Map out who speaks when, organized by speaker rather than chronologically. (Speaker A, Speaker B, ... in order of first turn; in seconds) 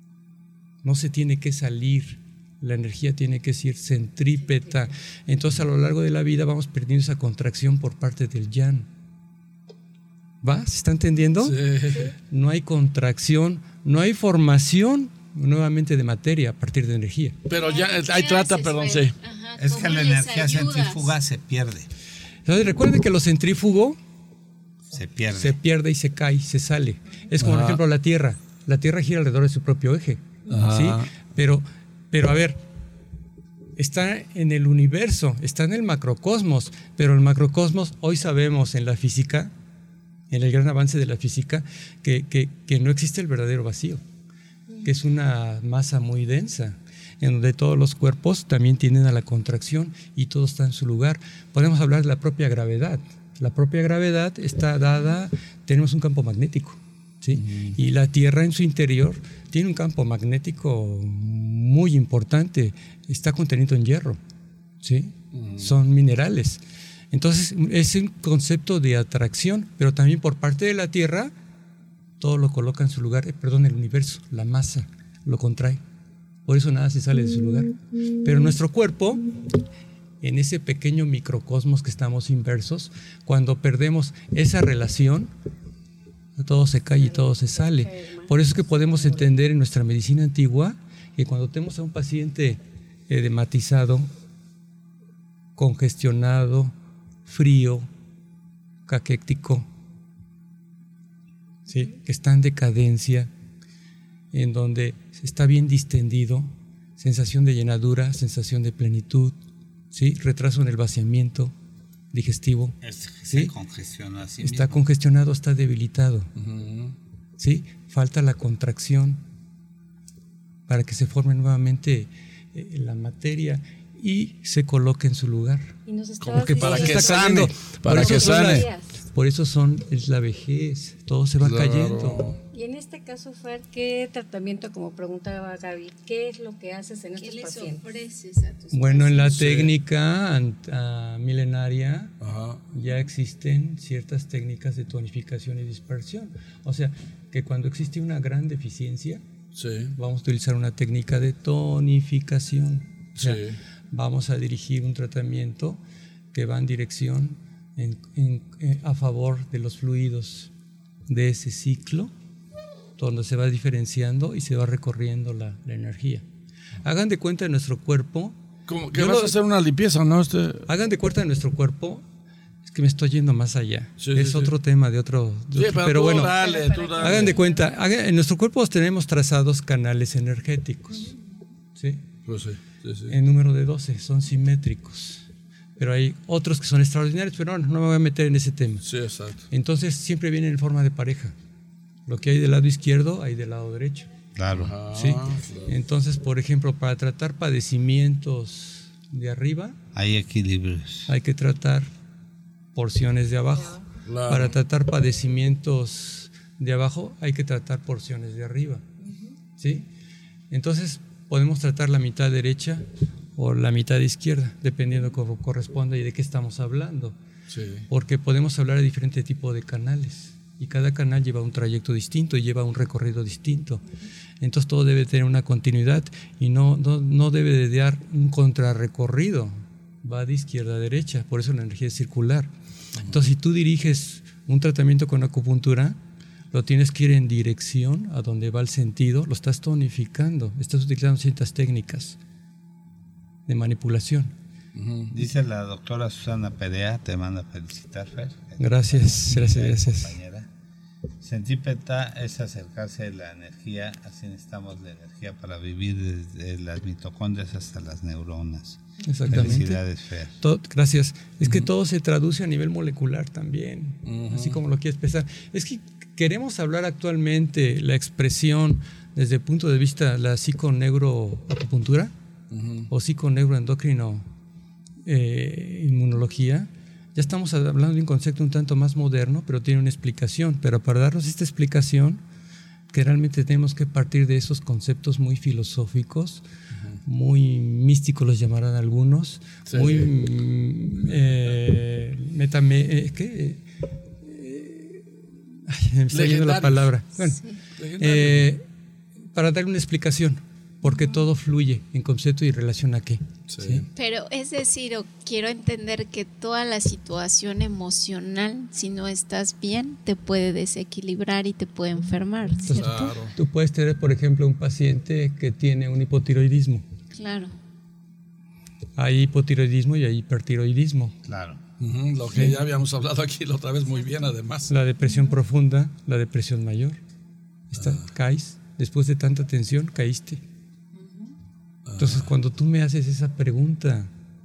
Speaker A: 0.8-8.9, 10.4-11.6, 12.3-17.4, 22.4-24.0, 25.3-32.6, 33.8-39.5, 40.3-44.0, 44.8-64.2, 64.8-66.6, 67.1-71.3, 72.2-75.8, 76.5-79.2, 80.2-85.3, 86.4-94.1, 95.5-96.7, 97.2-97.9, 98.8-99.7, 101.7-103.3, 104.3-109.3, 109.9-111.5, 112.1-112.8, 113.3-113.5, 114.4-116.3, 117.4-119.2, 120.7-125.8, 126.3-132.3, 138.7-142.2, 142.7-149.2, 149.9-155.8, 156.3-160.5, 161.1-162.1, 163.0-166.2, 166.8-168.4, 168.9-169.3, 170.7-172.0, 172.6-176.4, 177.0-181.1, 181.8-182.0, 183.1-185.2, 185.8-188.8, 189.5-191.3, 192.1-194.1, 194.9-199.8, 201.1-201.9, 202.7-208.8, 209.6-209.9, 210.5-217.2, 217.9-223.8, 224.4-232.5, 233.1-236.0, 236.5-242.2, 243.5-244.3, 248.6-250.1, 259.0-259.8, 260.4-272.1, 272.9-274.3, 275.1-282.2, 282.9-286.4, 287.0-293.6, 294.2-297.4, 298.0-298.6, 299.3-303.9, 312.6-316.9, 318.9-321.1, 322.3-322.6, 324.7-327.0, 327.7-330.4, 332.0-334.1
Speaker B: 11.4-12.1, 17.5-19.1, 27.4-27.8, 30.5-31.1, 57.3-57.8, 65.3-65.8, 116.4-116.9, 126.2-128.7, 131.4-132.4, 139.2-139.7, 142.2-142.6, 149.5-149.9, 153.2-153.6, 168.7-170.7, 174.0-174.5, 175.5-177.4, 182.2-183.1, 188.8-189.5, 194.5-195.7, 204.0-204.5, 217.5-217.8, 244.7-245.2, 264.0-264.6, 272.5-272.9, 289.7-290.1, 296.1-296.9, 297.8-298.5, 303.5-303.9, 312.7-313.3, 321.8-324.7, 327.8-328.0, 331.9-332.3
Speaker C: 17.5-21.1, 137.1-139.3, 303.9-312.8, 317.1-317.5
Speaker D: 19.6-21.9, 24.9-25.6, 112.8-114.8, 194.3-194.8, 199.9-201.1, 245.1-250.5, 251.2-260.4, 321.2-321.6
Speaker E: 87.0-89.2, 125.8-129.0, 132.5-137.8, 176.3-177.6, 209.0-209.3